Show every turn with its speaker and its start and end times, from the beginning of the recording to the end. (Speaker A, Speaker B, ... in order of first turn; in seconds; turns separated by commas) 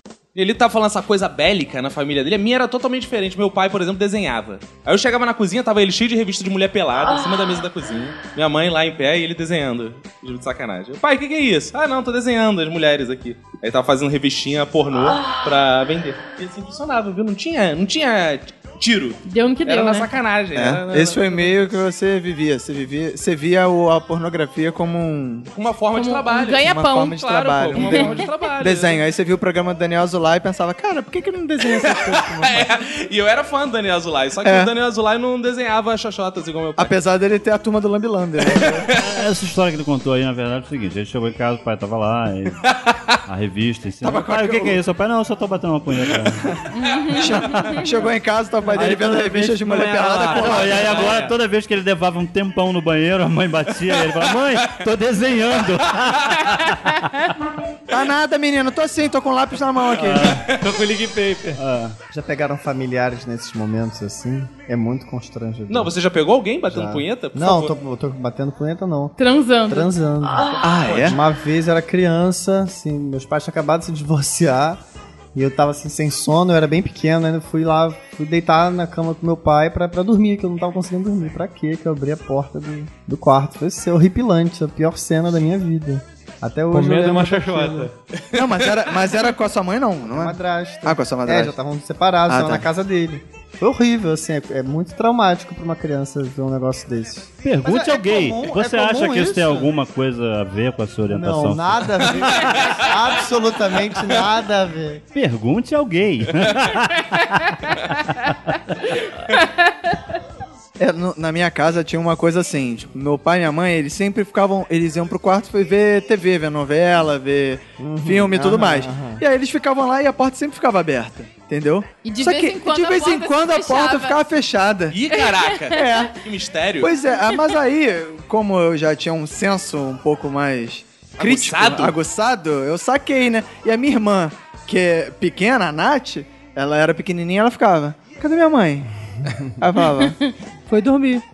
Speaker A: 0.3-21.5, Speaker B: 19.2-20.1, Speaker C: 20.5-25.5, Speaker A: 25.5-29.0, Speaker B: 25.9-27.2, Speaker C: 26.6-32.7, Speaker B: 27.7-28.1, Speaker A: 31.6-36.9, Speaker C: 34.4-34.7, Speaker C: 36.8-38.9, Speaker A: 38.4-39.0, Speaker D: 38.9-42.6, Speaker D: 43.2-46.5, Speaker C: 44.0-44.8, Speaker C: 46.5-51.1, Speaker B: 46.7-47.8, Speaker E: 48.7-51.3, Speaker D: 48.7-49.5, Speaker D: 50.1-57.3, Speaker C: 57.9-60.4, Speaker D: 59.9-60.5, Speaker E: 60.2-61.6, Speaker D: 61.5-62.0, Speaker F: 62.1-65.9, Speaker A: 65.7-67.7, Speaker F: 66.7-69.2, Speaker B: 69.2-69.9, Speaker F: 69.7-74.8, Speaker C: 70.6-71.2, Speaker A: 70.8-71.2, Speaker F: 75.3-87.9, Speaker E: 86.7-87.9, Speaker C: 88.3-91.5, Speaker A: 88.3-88.8, Speaker F: 90.1-99.7, Speaker C: 92.3-92.7, Speaker D: 97.4-102.3, Speaker F: 101.1-105.0, Speaker D: 105.1-108.6, Speaker C: 110.8-125.0, Speaker F: 117.8-119.2, Speaker B: 122.0-124.2, Speaker A: 124.9-126.9, Speaker B: 125.1-126.0, Speaker C: 125.7-126.2, Speaker C: 126.8-138.9, Speaker A: 131.2-131.9, Speaker C: 139.6-141.2